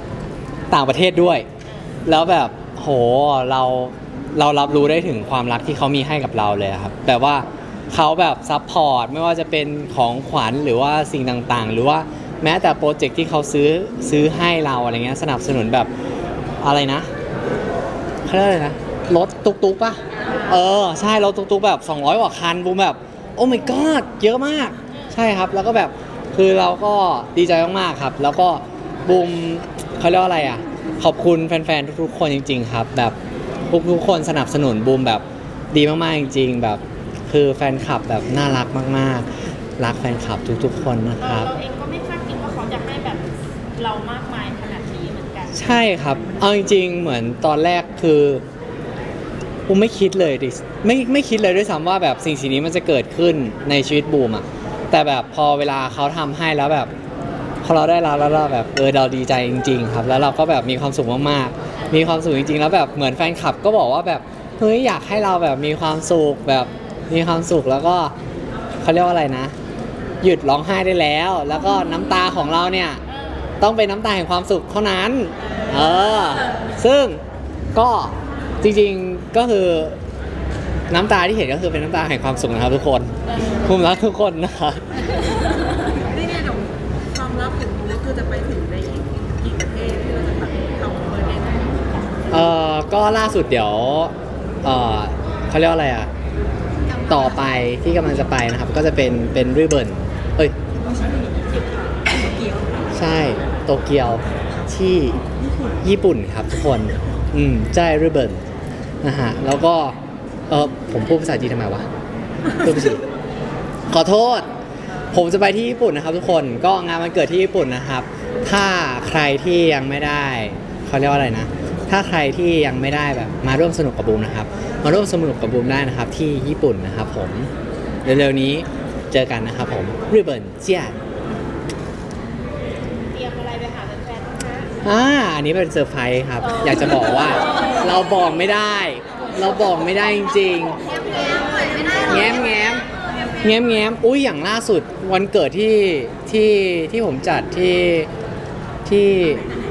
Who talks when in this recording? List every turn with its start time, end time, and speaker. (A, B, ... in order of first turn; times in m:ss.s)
0:00.7-0:01.5 A
0:01.7-0:01.9 B
0:02.0-0:15.9 A
0:16.6-0:17.1 A
0:18.3-0:33.2 A
0:33.7-0:41.5 A
0:41.2-0:45.6 B
0:45.5-0:48.4 A
0:49.7-0:56.9 A
0:57.6-1:08.2 A
1:08.8-1:09.5 A
1:10.2-1:13.0 A
1:13.6-1:17.2 A
1:17.7-1:20.0 A
1:20.9-1:25.0 A
1:26.1-1:31.8 C
1:32.3-1:36.1 A
1:37.1-1:40.6 A
1:42.9-1:45.2 A
1:45.8-1:48.4 A
1:49.0-1:50.0 A
1:50.5-1:51.9 A
1:52.6-1:53.0 A
1:53.9-1:54.5 A
1:55.1-2:07.5 A
2:08.0-2:11.0 A
2:13.1-2:14.7 B
2:14.8-2:20.8 A
2:16.4-2:17.8 B
2:21.9-2:22.8 A
2:23.4-2:28.1 A
2:28.8-2:29.4 A